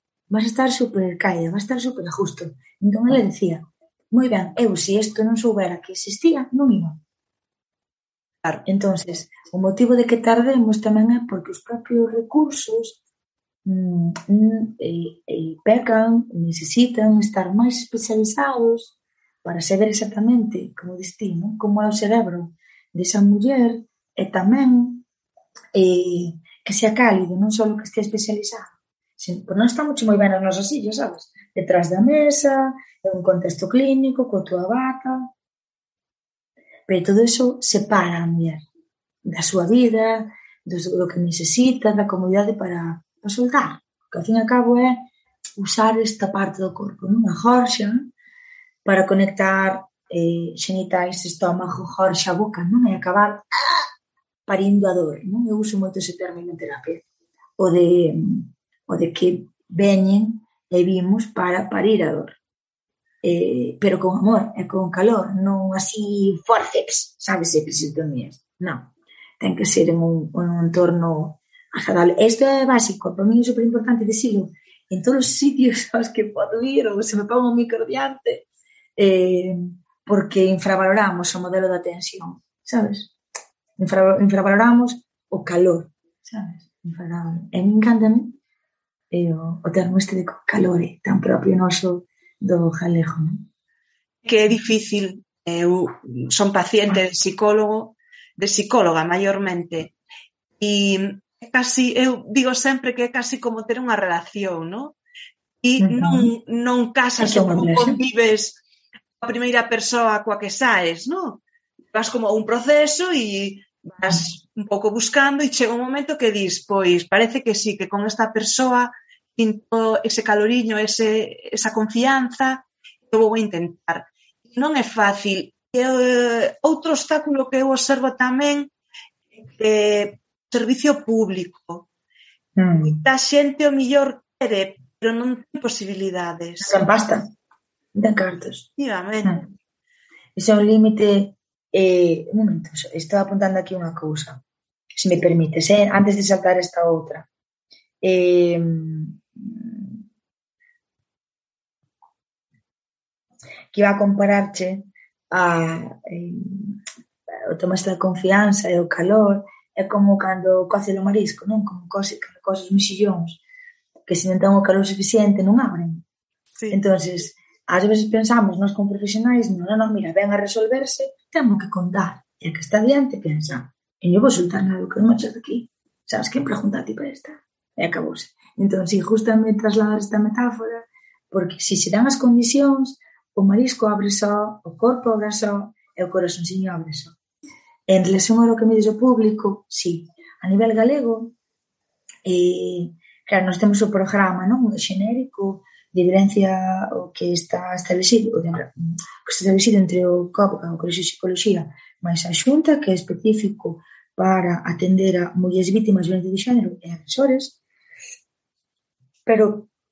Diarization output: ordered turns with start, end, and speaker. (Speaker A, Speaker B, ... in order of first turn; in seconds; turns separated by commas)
Speaker A: 0.3-7.0, Speaker A: 8.7-13.0, Speaker A: 13.6-18.9, Speaker A: 19.4-25.0, Speaker A: 25.7-35.3, Speaker A: 36.9-38.6, Speaker A: 39.2-45.0, Speaker A: 45.6-48.1, Speaker A: 48.8-53.9, Speaker A: 54.5-57.0, Speaker A: 57.6-62.4, Speaker A: 63.2-83.1, Speaker A: 83.8-88.4, Speaker A: 89.1-93.5, Speaker B: 94.2-99.9, Speaker B: 100.6-105.0, Speaker B: 105.6-108.6, Speaker A: 105.8-106.3, Speaker A: 107.2-108.0, Speaker B: 109.2-128.7, Speaker A: 114.1-114.3, Speaker B: 129.4-131.8, Speaker A: 132.6-133.0, Speaker B: 132.7-136.8, Speaker A: 136.6-137.3, Speaker A: 137.9-138.7, Speaker B: 138.8-139.4, Speaker A: 140.3-144.4, Speaker A: 144.9-147.3, Speaker A: 148.0-150.0, Speaker A: 153.7-156.8, Speaker A: 157.5-163.4, Speaker A: 164.1-166.0, Speaker A: 166.7-187.1, Speaker A: 187.9-191.3, Speaker A: 192.2-207.6, Speaker A: 209.2-209.7